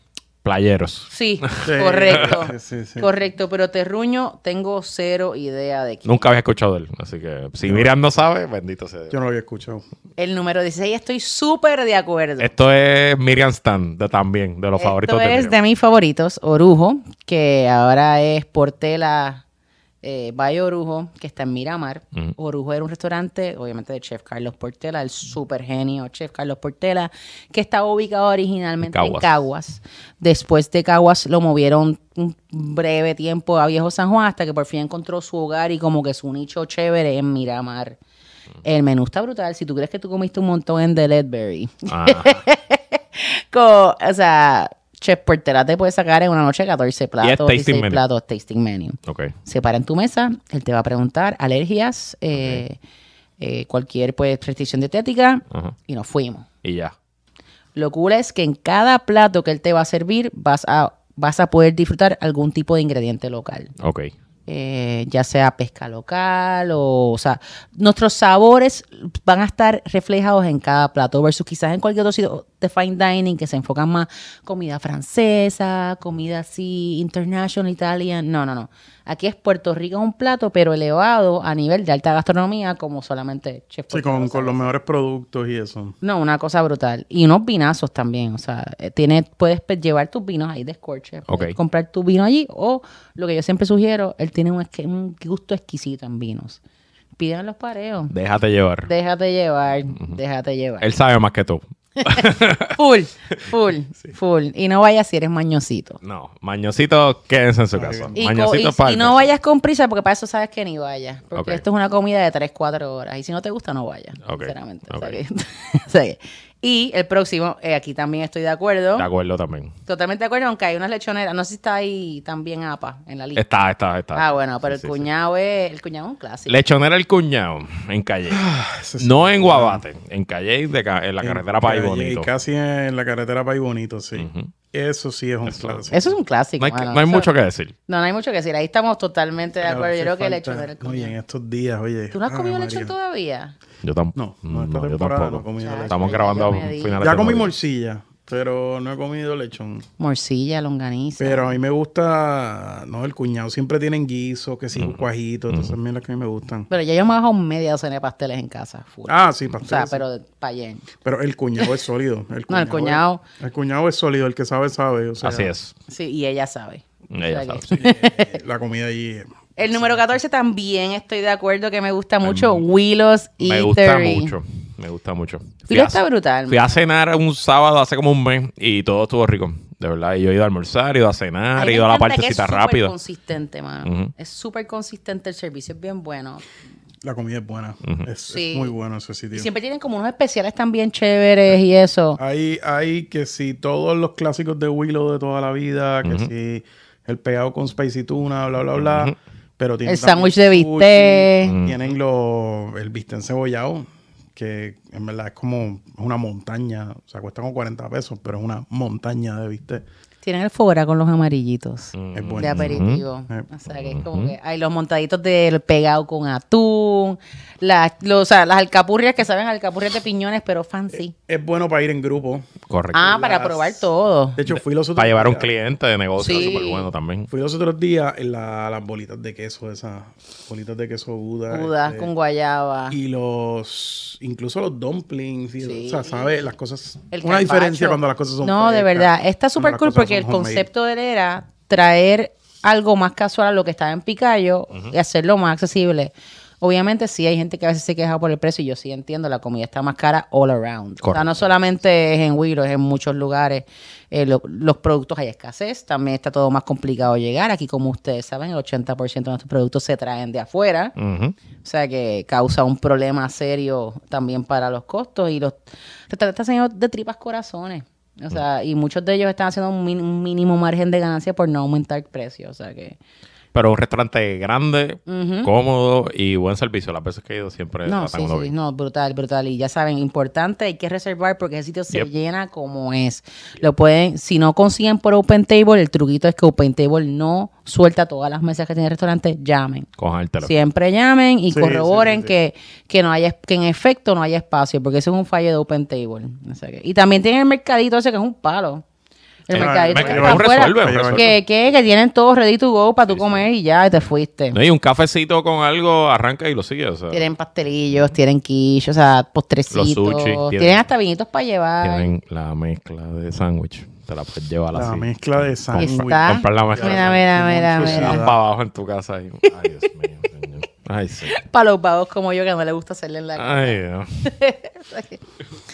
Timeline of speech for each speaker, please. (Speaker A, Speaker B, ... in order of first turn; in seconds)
Speaker A: 0.4-1.6, 6.0-9.2, 12.4-15.5, 28.8-29.4, 41.9-42.4, 47.2-48.0, 49.0-49.3, 52.4-52.6, 55.5-55.8, 56.6-56.9, 63.8-64.1, 91.3-91.6, 98.1-98.9, 100.8-102.8, 106.0-109.3, 111.3-111.6, 114.2-115.2, 119.0-119.7, 123.3-125.0, 126.5-128.4, 129.0-132.3, 134.2-134.5, 135.4-136.0, 136.6-137.7, 143.8-147.5, 154.8-155.8, 165.2-165.7, 167.1-167.8, 172.2-172.6, 173.4-182.9, 183.8-184.1, 196.0-196.3, 198.8-199.1, 201.4-201.8, 211.9-213.0, 213.7-214.3, 222.7-223.2, 224.5-227.3, 251.0-251.5, 261.0-261.4, 273.5-278.5, 290.0-290.6, 299.5-301.4, 303.1-303.4, 304.5-307.2, 309.7-310.8, 311.8-321.3, 323.4-324.2
Speaker B: 1.1-6.2, 10.2-12.5, 14.8-19.4, 20.0-38.0, 38.6-52.8, 53.4-56.5, 57.8-63.7, 64.5-84.7, 86.0-96.6, 97.2-98.1, 98.8-100.9, 102.0-106.0, 108.2-119.1, 119.9-123.4, 124.1-126.6, 135.9-137.3, 137.9-141.1, 142.1-143.5, 145.6-147.1, 150.0-151.5, 156.7-160.9, 162.5-163.2, 165.9-168.4, 169.6-174.3, 175.7-176.7, 181.6-186.4, 188.3-188.7, 189.3-192.2, 199.8-201.6, 210.2-221.1, 222.9-224.4, 226.2-226.8, 231.5-233.0, 235.6-236.2, 237.1-260.9, 261.6-273.0, 275.1-275.5, 277.9-289.9, 290.4-298.8, 299.5-304.6, 307.1-312.1, 315.8-318.2, 319.4-319.9, 321.3-325.2
Speaker C: 1.6-3.1, 7.6-7.9, 9.1-9.8, 83.9-86.0, 107.7-108.1, 128.3-129.8, 131.2-136.1, 139.6-142.9, 144.2-149.8, 151.2-156.7, 159.1-160.0, 161.0-165.5, 167.7-170.2, 187.0-189.5, 192.2-209.8, 212.1-213.5, 220.9-222.5, 223.0-225.5, 226.3-226.6, 227.3-232.1, 232.9-240.7, 291.5-292.3, 299.5-301.3, 314.7-318.4